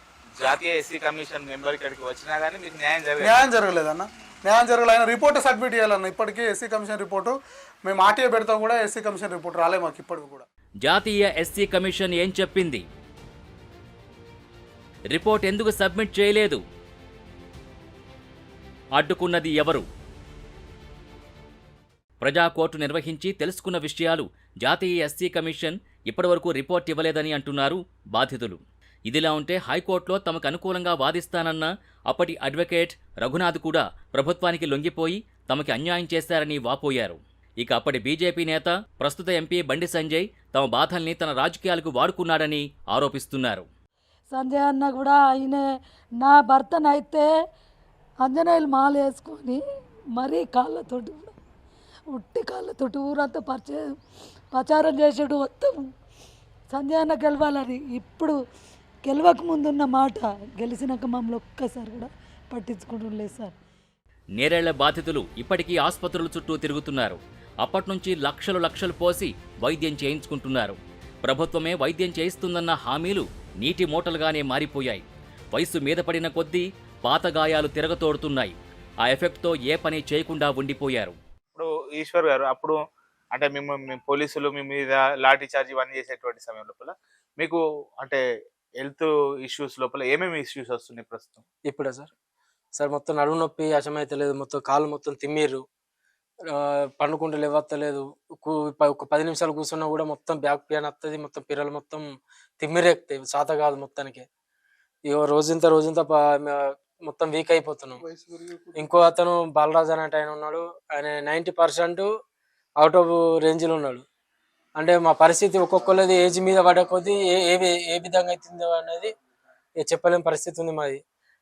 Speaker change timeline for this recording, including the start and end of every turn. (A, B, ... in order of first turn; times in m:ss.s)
0:00.4-0:03.4 A
0:03.2-0:10.4 B
0:10.8-0:12.8 C
0:15.1-0:16.6 C
0:19.0-0:19.8 C
0:22.2-0:43.7 C
0:44.3-0:45.6 D
0:46.2-0:47.3 D
0:48.2-0:49.6 D
0:50.2-0:51.3 D
0:52.1-0:53.9 D
0:54.5-0:55.8 D
0:56.7-0:58.4 D
0:59.1-1:03.6 D
1:04.4-1:21.2 C
1:21.6-1:22.8 A
1:23.3-1:28.2 A
1:28.8-1:31.4 A
1:31.7-1:32.1 E
1:32.8-1:35.6 E
1:36.6-1:42.1 E
1:42.6-1:44.2 E
1:45.1-1:48.0 E
1:48.2-1:48.9 B
1:48.7-1:52.1 E
1:52.8-1:54.0 E
1:54.8-1:59.1 E
1:59.8-2:01.0 E